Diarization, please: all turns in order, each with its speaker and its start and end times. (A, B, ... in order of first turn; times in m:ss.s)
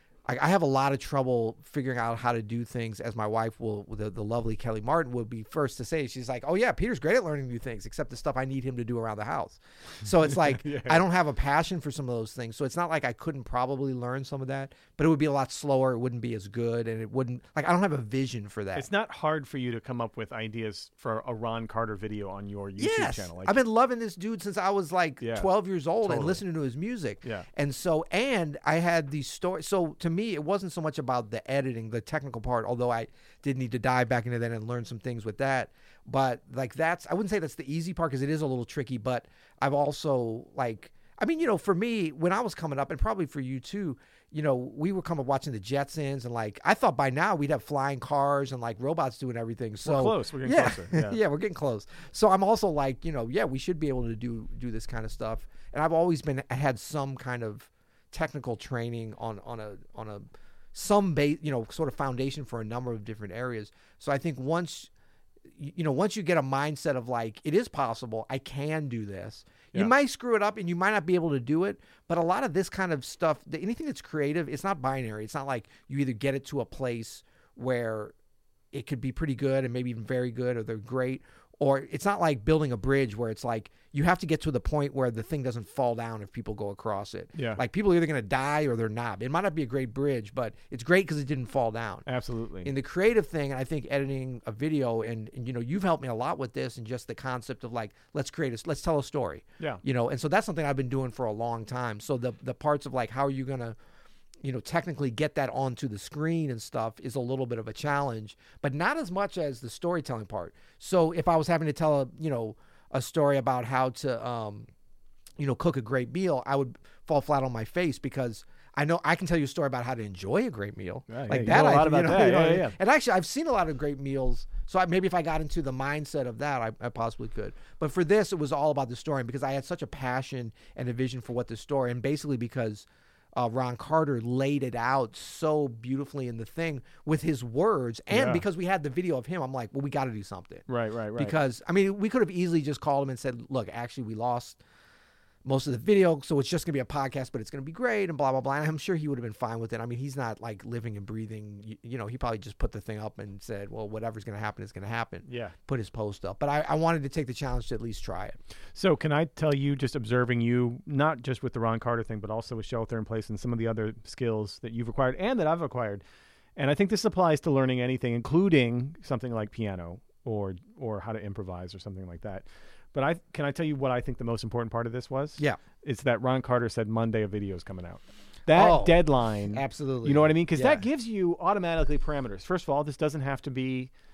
0:00.3-0:18.9 A
0:10.3-0:11.0 B
0:18.8-0:23.6 B
0:22.8-1:04.9 A
0:25.2-0:25.5 B
0:26.0-0:26.4 B
0:49.8-0:51.2 B
1:05.5-1:18.1 A
1:18.7-1:32.1 A
1:27.4-1:27.6 B
1:32.1-1:32.7 B
1:32.6-1:43.8 A
1:44.4-1:54.7 A
1:55.4-2:24.6 A
2:01.1-2:02.8 B
2:18.1-2:18.4 B
2:20.7-2:21.4 B
2:25.4-2:38.4 A
2:35.3-2:35.6 B
2:38.8-2:46.0 B
2:46.6-3:03.9 B
2:58.5-3:00.8 A